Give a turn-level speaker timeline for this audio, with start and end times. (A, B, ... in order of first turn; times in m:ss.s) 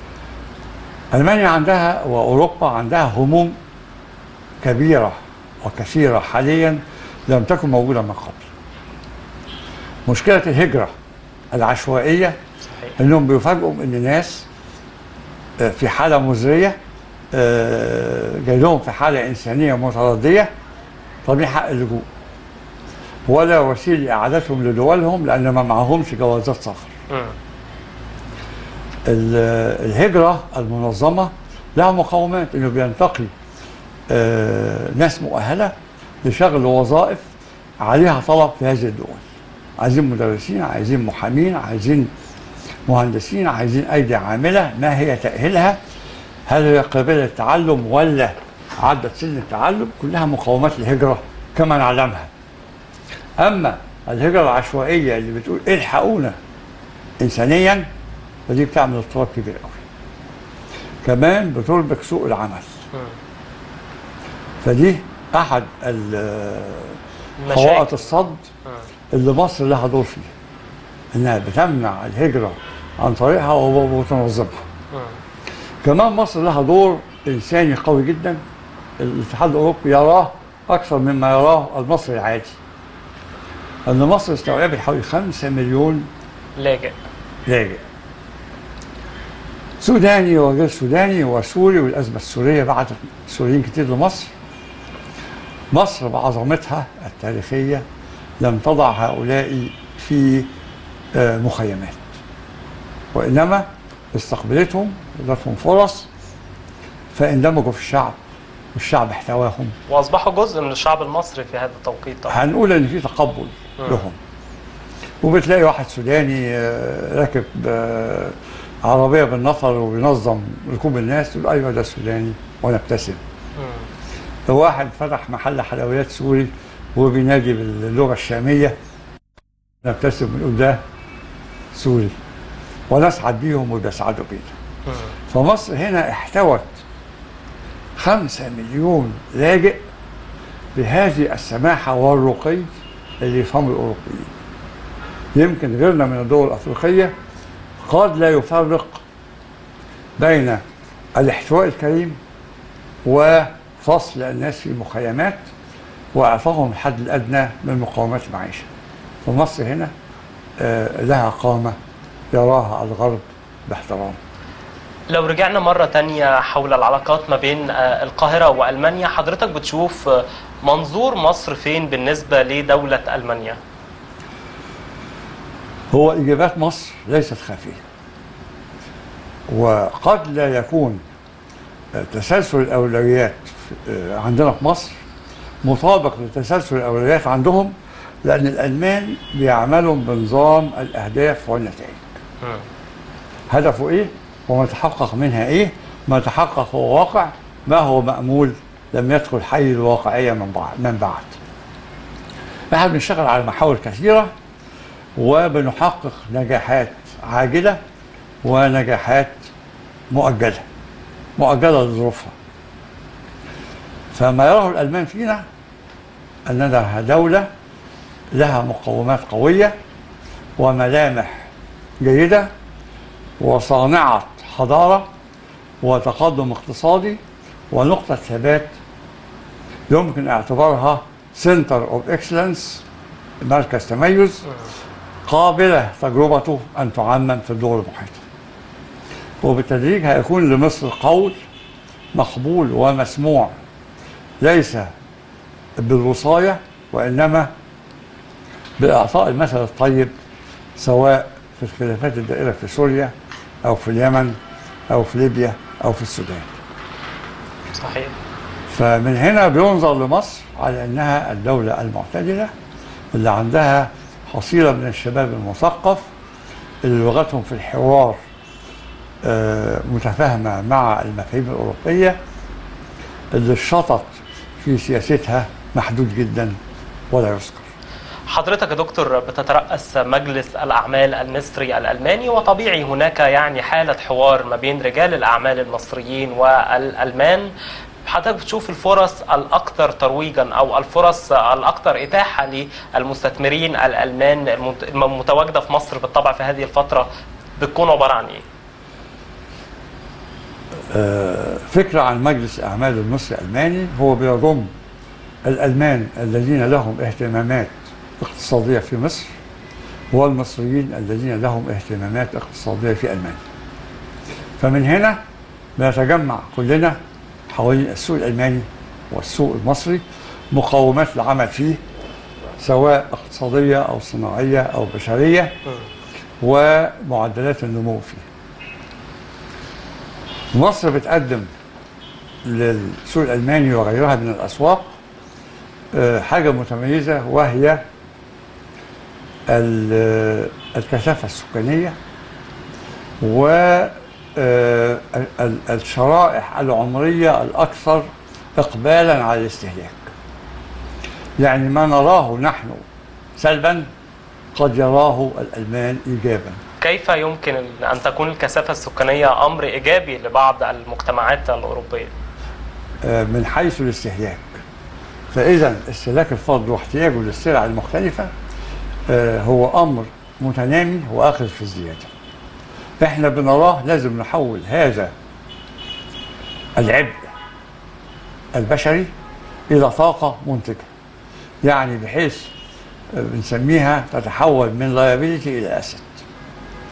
0:01.1-0:03.6 A
0:04.6-0:08.5 A
0:10.1-0:10.9 A
0:11.5-0:12.4 A
0:12.7-0:13.0 B
0:13.0-0:14.5 A
0:15.6-0:16.8 A
0:17.3-0:20.5 A
0:21.2-0:22.1 A
0:23.3-0:26.9 A
0:27.1-0:27.4 B
0:29.0-0:33.3 A
0:34.1-0:37.3 A
0:37.8-0:39.2 A
0:39.8-0:42.1 A
0:42.9-0:45.8 A
0:46.5-0:52.3 A
0:53.4-0:56.4 A
0:57.2-0:57.9 A
0:58.5-0:59.8 A
1:01.0-1:02.8 A
1:04.6-1:08.5 A
1:07.4-1:08.8 B
1:09.1-1:10.3 A
1:11.1-1:14.6 A
1:15.8-1:18.4 A
1:19.0-1:22.6 A
1:23.9-1:26.1 A
1:26.6-1:27.0 B
1:27.5-1:27.8 A
1:29.8-1:34.3 A
1:35.7-1:37.8 A
1:38.4-1:40.5 A
1:41.1-1:42.2 A
1:43.1-1:46.1 A
1:47.1-1:48.2 A
1:48.7-1:49.8 A
1:49.9-1:52.4 B
1:52.3-1:54.2 A
1:55.2-2:03.2 A
2:03.6-2:03.9 B
2:04.5-2:08.8 A
2:09.8-2:10.8 A
2:11.7-2:12.2 A
2:12.9-2:14.5 A
2:14.9-2:15.1 B
2:15.3-2:16.8 A
2:18.0-2:19.8 A
2:20.8-2:24.3 A
2:25.3-2:27.1 A
2:27.8-2:29.0 A
2:30.2-2:30.6 A
2:31.2-2:32.2 A
2:33.0-2:35.5 A
2:36.1-2:38.7 A
2:39.2-2:39.9 A
2:40.6-2:41.8 A
2:42.3-2:44.2 A
2:45.1-2:53.6 B
2:55.9-2:57.8 A
2:59.5-3:01.0 A
3:01.9-3:05.0 A
3:05.6-3:12.2 A
3:13.5-3:21.4 A
3:22.7-3:24.3 A
3:25.2-3:27.8 A
3:28.4-3:29.5 A
3:30.1-3:30.6 A
3:31.4-3:32.4 A
3:34.1-3:35.4 A
3:36.5-3:37.5 A
3:38.3-3:39.8 A
3:40.6-3:41.3 A
3:42.0-3:42.5 A
3:43.4-3:45.1 A
3:45.8-3:48.8 A
3:49.9-3:52.8 A
3:53.4-3:54.5 A
3:55.3-3:58.2 A
3:59.4-4:01.4 A
4:02.1-4:03.5 A
4:04.4-4:04.9 A
4:05.8-4:07.5 A
4:08.8-4:10.1 A
4:10.8-4:14.4 A
4:14.9-4:16.6 A
4:17.8-4:18.1 B
4:18.7-4:22.5 A
4:23.1-4:26.1 A
4:26.8-4:28.2 A
4:29.2-4:32.2 A
4:33.3-4:36.6 A
4:37.1-4:37.7 A
4:38.3-4:47.5 B
4:48.0-4:57.1 B
4:57.6-4:58.4 B
5:00.9-5:04.7 A
5:05.4-5:09.3 A
5:10.1-5:13.4 A
5:14.6-5:15.2 A
5:15.8-5:17.0 A
5:17.5-5:21.8 A
5:22.6-5:25.6 A
5:26.4-5:28.3 A
5:30.5-5:31.5 A
5:32.4-5:35.0 A
5:35.9-5:37.8 A
5:39.5-5:42.0 A
5:43.2-5:50.1 A
5:51.4-5:52.8 A
5:53.4-5:53.9 A
5:54.5-5:56.6 A
5:56.8-6:02.1 B
6:03.0-6:04.6 A
6:05.3-6:08.3 A
6:09.1-6:12.1 A
6:13.0-6:15.1 A
6:16.8-6:17.2 A
6:18.5-6:19.1 A
6:19.7-6:20.9 A
6:21.6-6:22.5 A
6:23.1-6:26.2 A